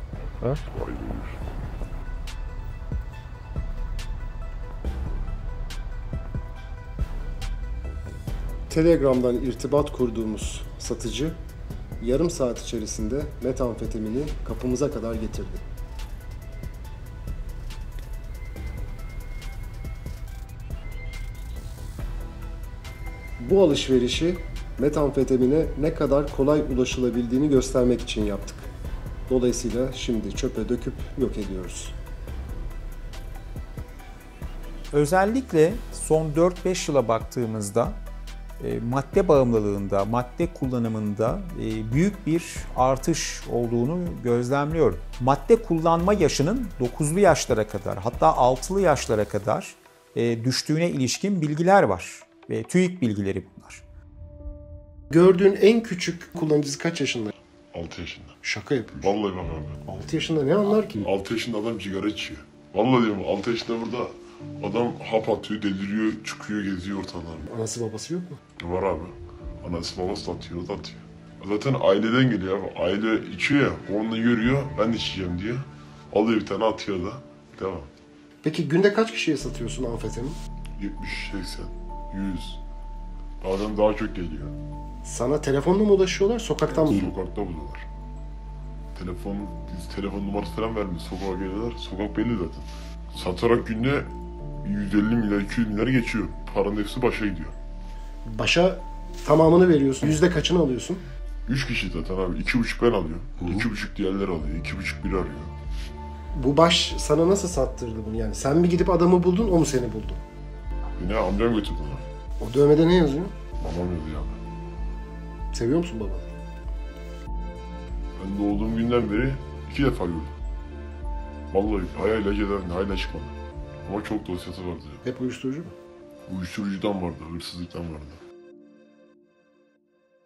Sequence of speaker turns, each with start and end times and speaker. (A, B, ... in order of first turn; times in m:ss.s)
0:00.7-0:01.4 A
0:08.7-0:11.4 B
0:12.0-0:15.6 B
0:23.4-0:28.7 B
0:29.3-0:32.0 B
0:34.9-0:38.0 C
0:38.6-0:53.8 C
0:55.1-0:57.3 B
0:57.7-0:58.4 A
0:58.4-0:59.2 B
0:58.9-0:59.8 A
0:59.8-1:01.1 B
1:00.9-1:07.5 A
1:07.4-1:08.4 B
1:08.6-1:17.9 A
1:18.4-1:20.4 B
1:20.8-1:22.6 A
1:23.4-1:24.6 A
1:25.0-1:27.1 B
1:26.7-1:27.8 A
1:28.9-1:34.1 A
1:34.6-1:37.6 A
1:38.2-1:41.0 B
1:41.5-1:45.5 A
1:46.3-1:50.2 B
1:51.0-1:52.0 A
1:52.4-1:53.3 B
1:53.6-1:54.4 A
1:55.5-1:56.3 B
1:58.2-2:00.3 A
2:01.5-2:03.3 A
2:03.8-2:05.0 A
2:05.0-2:05.7 B
2:06.3-2:08.2 A